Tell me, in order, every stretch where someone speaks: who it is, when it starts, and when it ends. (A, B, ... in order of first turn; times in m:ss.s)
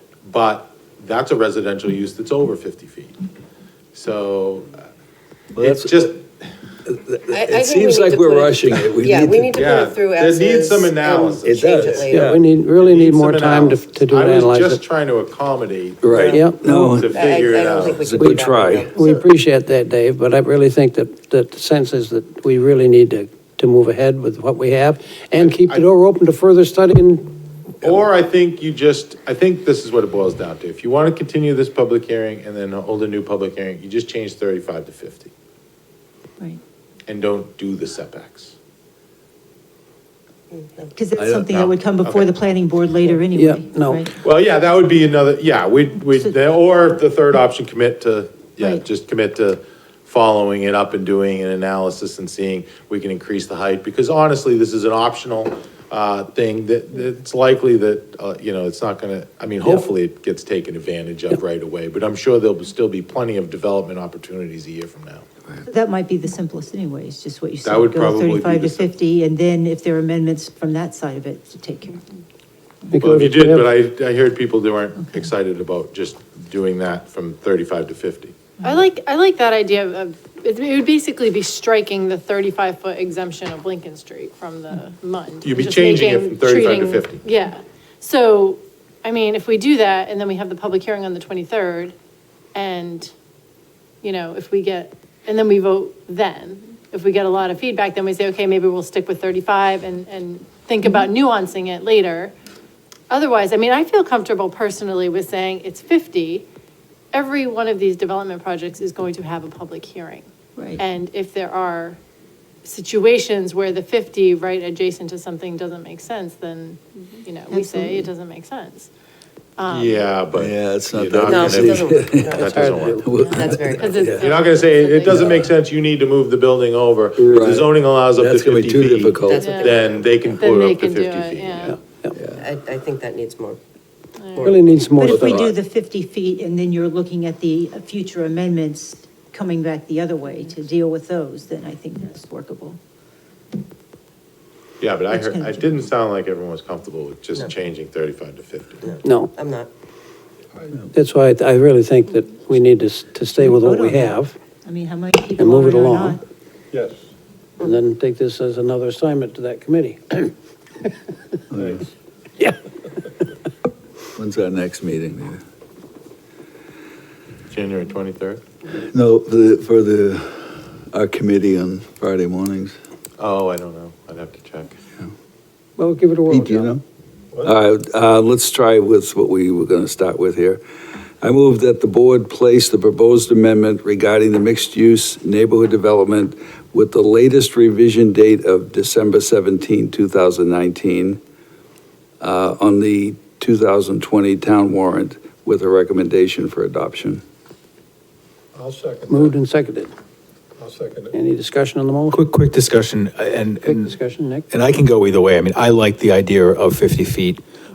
0:00.2-0:03.2 A
0:03.9-0:04.9 A
0:05.5-0:06.1 B
0:05.6-0:06.3 A
0:06.8-0:09.6 B
0:07.3-0:12.4 C
0:09.5-0:11.9 A
0:11.4-0:12.4 B
0:12.1-0:14.8 D
0:12.8-0:17.9 A
0:16.0-0:17.3 B
0:16.0-0:16.5 C
0:16.2-0:16.9 D
0:17.1-0:19.3 C
0:17.8-0:18.9 B
0:18.2-0:27.3 D
0:25.3-0:25.9 A
0:27.8-0:35.3 A
0:37.1-0:38.5 A
0:40.5-0:40.9 C
0:40.9-0:44.1 E
0:41.1-0:41.5 B
0:41.5-0:42.3 A
0:43.3-0:44.0 D
0:44.2-1:05.3 A
0:48.6-0:48.8 E
1:05.6-1:12.0 E
1:07.6-1:08.9 A
1:12.9-1:13.7 D
1:13.0-1:18.4 A
1:15.0-1:15.3 E
1:18.6-1:31.9 F
1:25.4-1:27.2 A
1:32.5-1:33.1 F
1:34.0-1:42.3 F
1:43.1-1:46.4 F
1:47.1-1:50.2 F
1:50.6-1:50.8 E
1:50.8-1:52.0 F
1:52.6-1:58.9 F
1:57.5-1:58.1 E
1:59.6-2:00.1 F
1:59.7-2:03.0 A
2:00.3-2:04.3 B
2:01.2-2:04.3 C
2:02.4-2:03.0 D
2:03.0-2:05.4 F
2:04.2-2:11.8 A
2:05.0-2:05.5 B
2:07.2-2:09.6 B
2:09.2-2:10.5 C
2:09.4-2:11.7 F
2:11.6-2:12.1 D
2:12.1-2:12.5 B
2:12.4-2:13.6 C
2:14.2-2:14.6 F
2:14.4-2:14.8 C
2:14.4-2:15.5 D
2:15.0-2:22.8 E
2:24.8-2:29.0 A
2:25.1-2:25.9 E
2:28.8-2:29.7 C
2:29.0-2:29.3 D
2:30.9-2:34.3 D
2:33.4-2:36.2 E
2:35.4-2:36.2 D
2:36.7-2:37.0 G
2:37.6-2:40.3 D
2:41.5-2:41.8 B
2:41.5-2:41.8 G
2:44.2-2:45.4 B
2:47.5-2:48.4 A
2:48.7-2:52.8 B
2:53.2-2:54.8 A
2:55.8-2:56.7 D
2:56.3-2:56.8 B
2:57.4-3:00.6 B
3:01.2-3:11.2 B
3:12.2-3:17.2 B
3:18.5-3:19.3 G
3:19.1-3:19.9 D
3:20.6-3:21.1 G
3:21.1-3:22.2 D
3:22.1-3:23.9 H
3:23.6-3:24.5 D
3:24.5-3:27.4 H